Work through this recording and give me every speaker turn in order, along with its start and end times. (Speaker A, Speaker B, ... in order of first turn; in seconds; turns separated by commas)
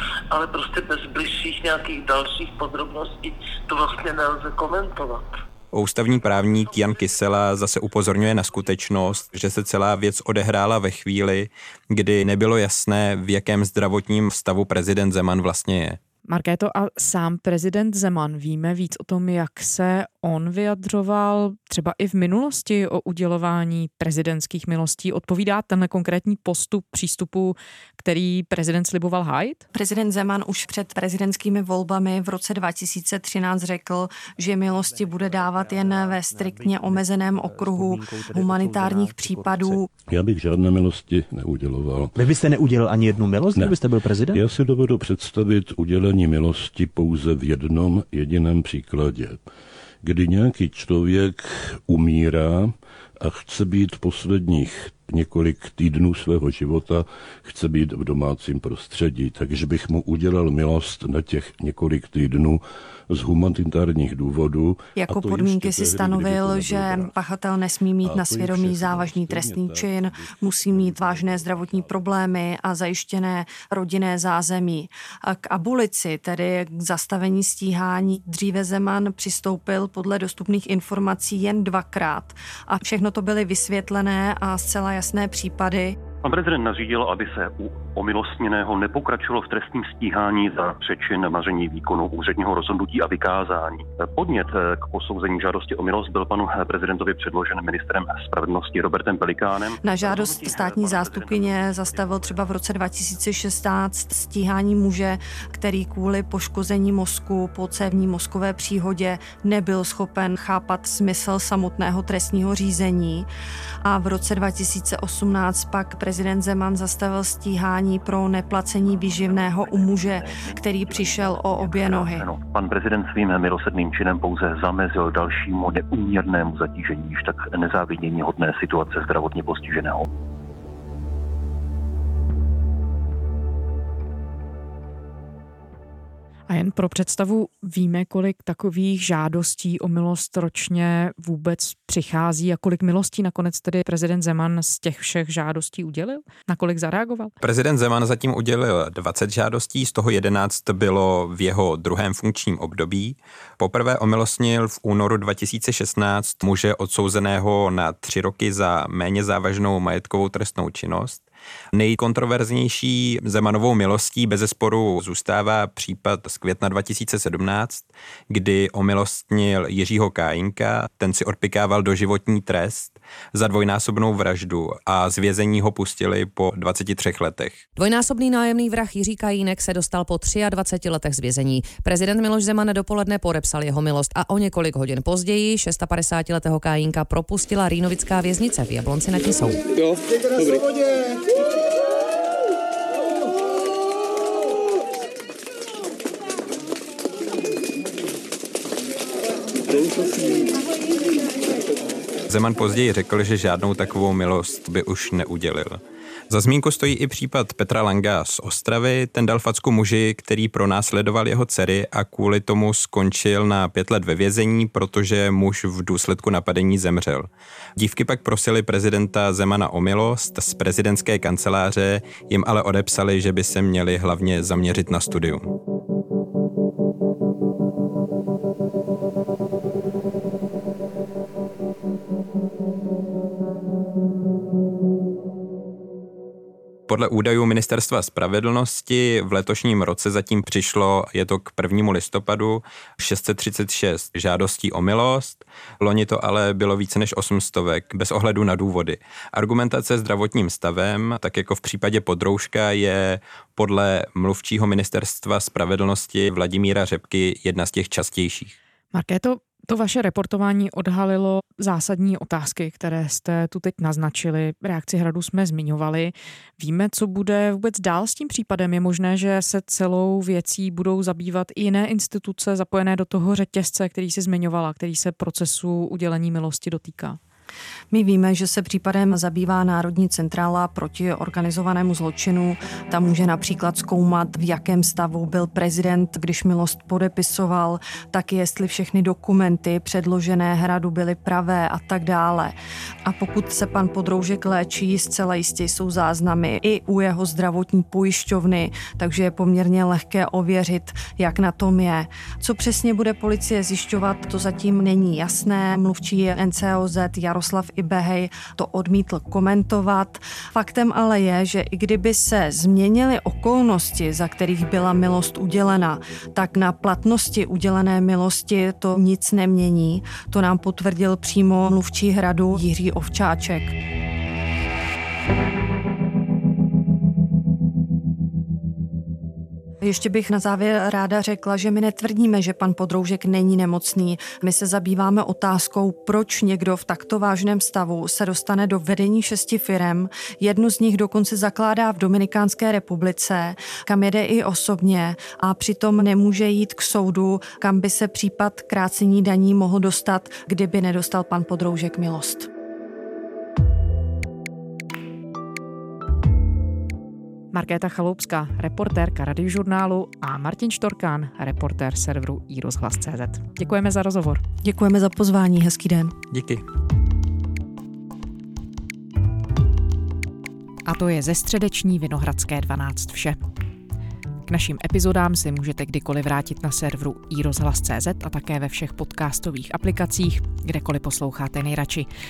Speaker A: 0.3-5.3, Speaker B: 5.7-16.0, Speaker C: 16.3-29.7, Speaker D: 29.7-39.9, Speaker E: 35.0-39.9, Speaker F: 40.1-42.6, Speaker E: 42.2-44.4, Speaker F: 43.4-49.4, Speaker F: 50.0-67.2, Speaker D: 65.0-86.0, Speaker F: 68.0-72.2, Speaker G: 86.2-102.6, Speaker D: 99.8-113.3, Speaker D: 113.8-122.3, Speaker G: 118.8-130.1, Speaker C: 136.5-147.3, Speaker B: 147.4-177.6, Speaker H: 177.8-189.6, Speaker B: 202.3-225.5, Speaker B: 236.9-258.6, Speaker C: 258.9-277.2, Speaker D: 277.9-323.8, Speaker D: 329.8-352.5, Speaker C: 357.5-364.4, Speaker D: 364.6-366.1, Speaker B: 366.3-366.6, Speaker C: 370.9-373.4, Speaker C: 374.5-382.1